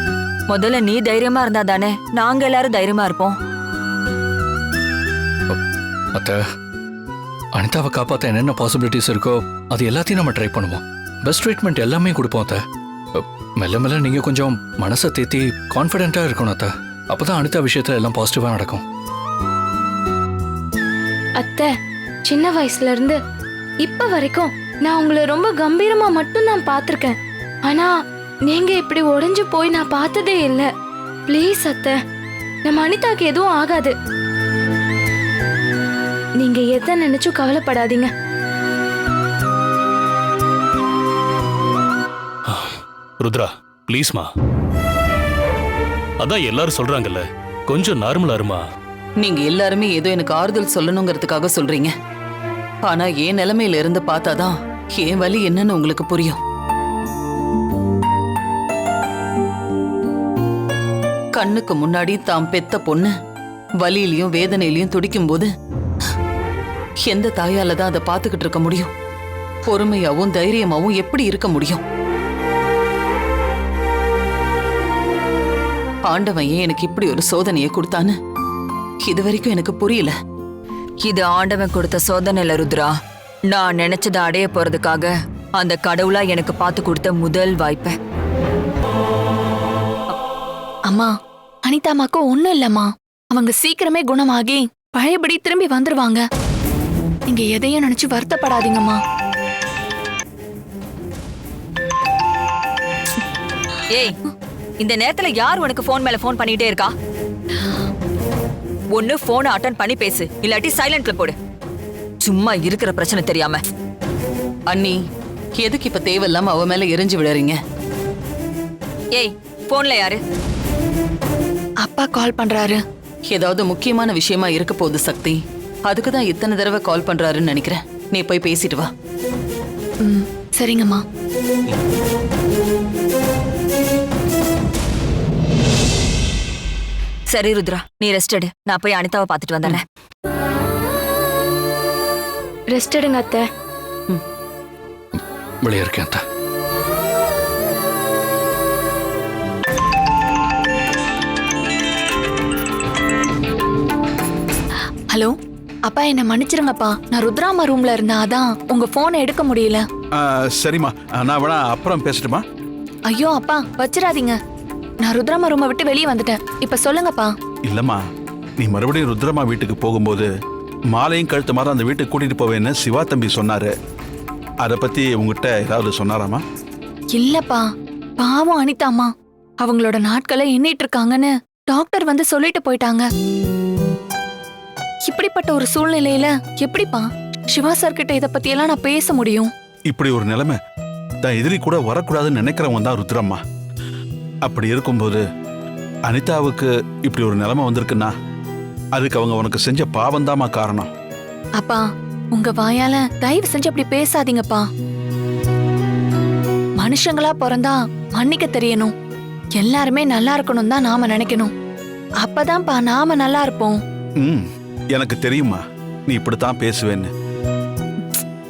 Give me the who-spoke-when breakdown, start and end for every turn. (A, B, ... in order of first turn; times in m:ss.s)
0:00.5-0:03.4 A
0:06.1-0:06.4 B
0:07.6-0:12.6 B
0:13.1-0:18.8 B
0:21.4-0:21.7 C
0:22.3-0:23.2 C
0:23.8-0:27.1 C
0:27.6-0:27.9 C
0:28.5-0:30.7 C
0:31.3-0:32.0 C
0:32.6-0:33.9 C
0:36.4-0:38.1 C
0:42.5-0:44.3 D
0:46.2-0:48.6 D
0:49.2-0:51.9 E
0:52.8-0:56.4 E
1:01.3-1:03.1 E
1:03.8-1:05.5 E
1:07.0-1:08.9 E
1:09.7-1:11.8 E
1:16.1-1:18.1 E
1:19.0-1:20.1 E
1:21.0-1:22.9 A
1:23.5-1:27.9 A
1:30.9-1:31.1 F
1:31.6-1:36.2 F
1:37.3-1:39.0 F
1:44.8-1:46.9 A
1:48.9-1:51.4 A
1:52.2-1:53.6 A
1:54.7-1:55.0 E
1:55.6-1:57.6 E
1:59.1-2:00.2 A
2:01.8-2:02.8 F
2:03.3-2:08.9 E
2:10.0-2:11.0 F
2:17.3-2:19.8 A
2:22.7-2:23.4 C
2:25.1-2:26.2 B
2:35.9-2:39.8 F
2:40.1-2:42.4 G
2:43.1-2:44.4 F
2:45.0-2:47.3 F
2:47.6-2:48.0 G
2:48.6-2:50.3 G
2:50.9-2:53.7 G
2:54.6-2:56.4 G
2:57.1-2:57.6 F
2:58.2-2:59.1 F
2:59.6-3:03.0 F
3:05.1-3:09.5 F
3:09.9-3:10.6 G
3:11.2-3:13.4 G
3:14.4-3:15.2 G
3:16.1-3:18.1 G
3:19.0-3:20.9 G
3:21.6-3:24.6 F
3:26.8-3:28.9 F
3:29.6-3:31.5 F
3:32.2-3:33.8 F
3:34.2-3:37.1 G